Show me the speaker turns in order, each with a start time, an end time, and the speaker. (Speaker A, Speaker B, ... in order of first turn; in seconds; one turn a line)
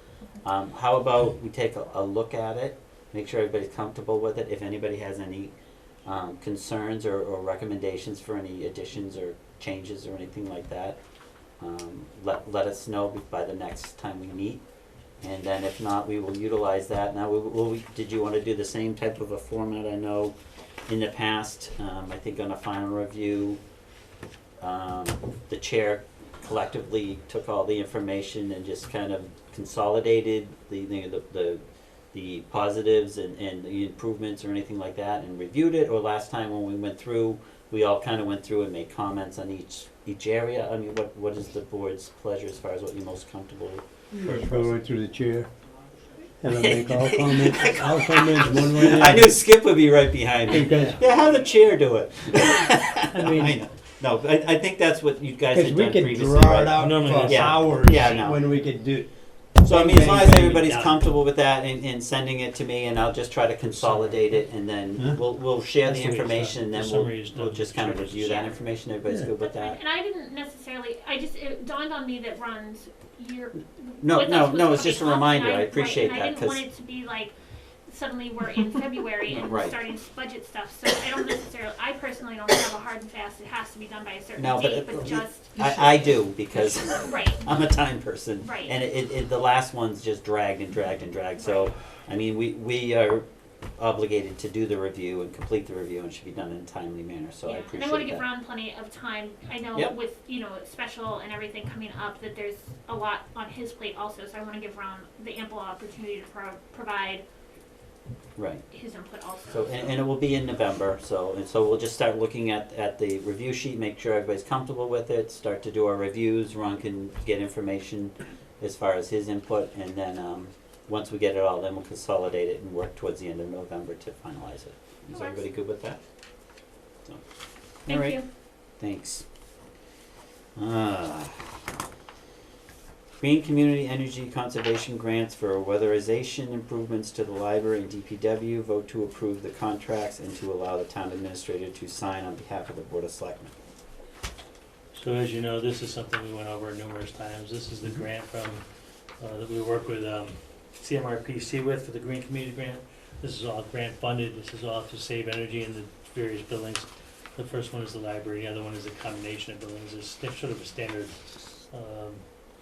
Speaker A: 0.4-5.5
Speaker A: 6.0-11.0
Speaker A: 11.6-14.6
Speaker A: 15.2-20.3
Speaker A: 20.9-23.6
Speaker A: 24.6-44.8
Speaker B: 44.2-45.5
Speaker B: 46.4-49.4
Speaker A: 46.5-58.5
Speaker B: 50.5-51.0
Speaker B: 53.1-53.6
Speaker B: 55.5-61.0
Speaker C: 56.8-57.5
Speaker A: 59.6-69.8
Speaker C: 63.7-64.5
Speaker C: 65.4-68.3
Speaker D: 68.2-77.3
Speaker A: 74.0-76.6
Speaker D: 77.9-85.8
Speaker A: 79.3-79.8
Speaker A: 84.4-93.2
Speaker D: 86.8-87.5
Speaker D: 88.4-88.8
Speaker A: 93.8-98.3
Speaker D: 97.5-107.2
Speaker A: 108.4-108.6
Speaker D: 108.7-110.0
Speaker A: 109.5-126.0
Speaker D: 125.1-125.5
Speaker A: 127.9-128.2
Speaker D: 127.9-128.2
Speaker A: 128.8-129.2
Speaker A: 130.6-131.5
Speaker A: 133.2-143.5
Speaker C: 144.9-148.6
Speaker C: 149.2-161.2
Speaker C: 161.7-162.2